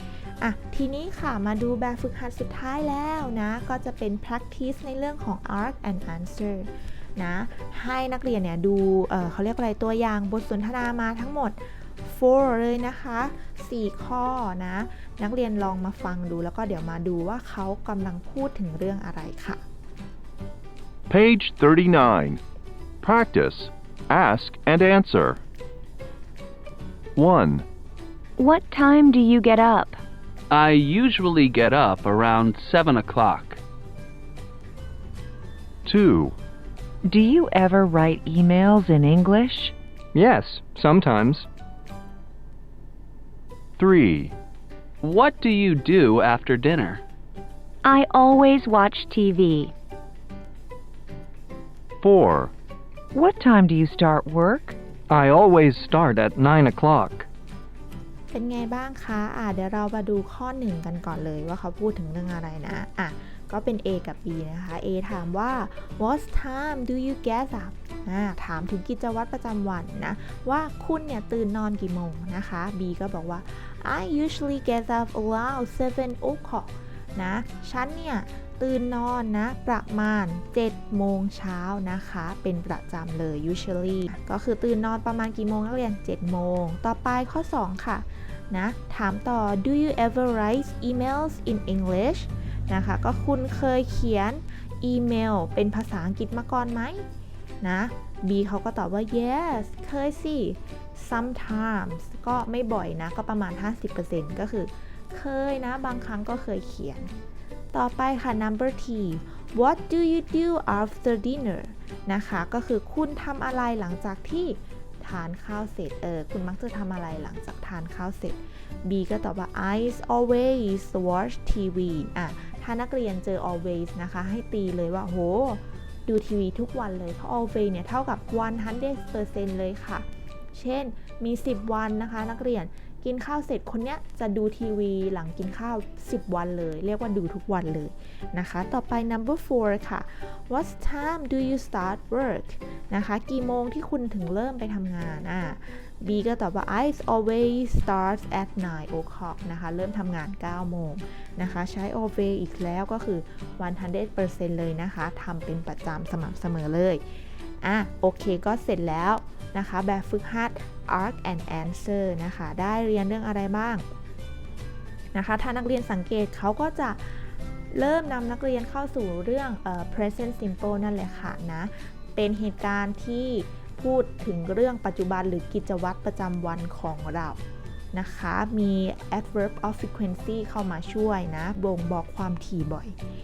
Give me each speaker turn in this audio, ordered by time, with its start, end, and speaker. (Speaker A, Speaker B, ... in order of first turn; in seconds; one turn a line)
Speaker A: 0.4-19.6
Speaker B: 21.1-22.4
Speaker B: 23.0-25.4
Speaker B: 27.2-27.6
Speaker C: 28.4-30.0
Speaker D: 30.5-33.6
Speaker B: 35.9-36.4
Speaker E: 37.0-39.7
Speaker F: 40.1-41.5
Speaker B: 43.8-44.3
Speaker D: 45.0-47.0
Speaker C: 47.8-49.7
Speaker B: 52.0-52.5
Speaker E: 53.1-54.8
Speaker F: 55.1-57.3
Speaker A: 58.3-97.0
Speaker A: 97.6-107.1
Speaker A: 107.7-157.0
Speaker A: 157.6-163.8
Speaker A: 165.1-177.4
Speaker A: 177.9-182.9